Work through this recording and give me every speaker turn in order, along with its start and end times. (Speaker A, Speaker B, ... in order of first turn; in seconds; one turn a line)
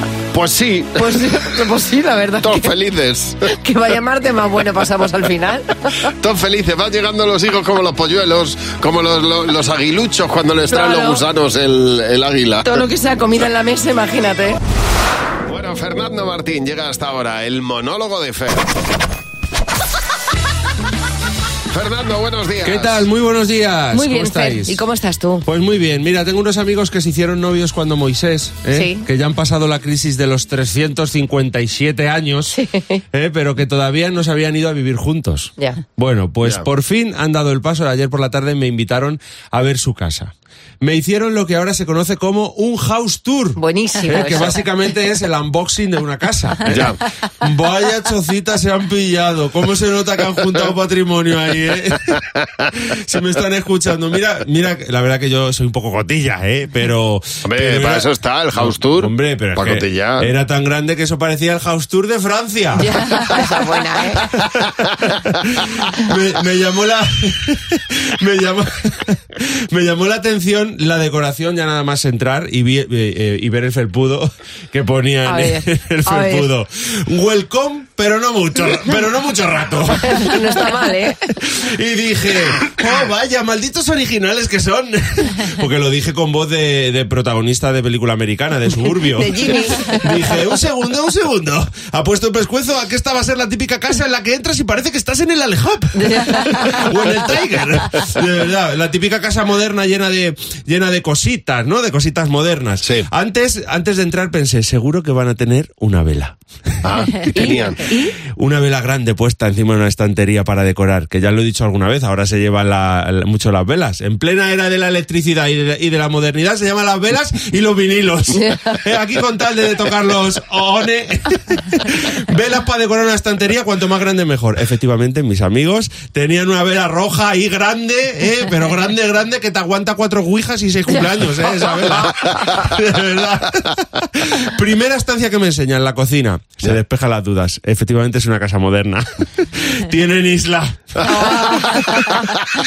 Speaker A: 0.3-1.2
Speaker B: 1.0-2.7
Speaker A: 2.4-3.4
Speaker B: 3.5-6.0
Speaker A: 6.2-12.8
Speaker B: 10.7-11.2
Speaker B: 12.6-14.6
Speaker A: 15.5-18.7
Speaker A: 21.7-23.0
Speaker C: 22.6-24.8
Speaker B: 23.9-25.4
Speaker C: 25.5-32.5
Speaker B: 28.7-29.1
Speaker B: 32.5-33.0
Speaker C: 33.1-52.1
Speaker B: 43.6-44.6
Speaker A: 46.7-47.0
Speaker C: 52.9-63.0
Speaker A: 57.5-60.3
Speaker B: 62.8-64.3
Speaker C: 65.4-80.4
Speaker B: 75.3-76.5
Speaker B: 80.1-81.2
Speaker C: 81.5-106.4
Speaker B: 89.1-90.1
Speaker B: 96.0-96.9
Speaker A: 106.8-107.8
Speaker B: 107.3-108.1
Speaker C: 108.3-142.2
Speaker B: 118.3-118.8
Speaker B: 130.9-132.4
Speaker B: 141.0-142.2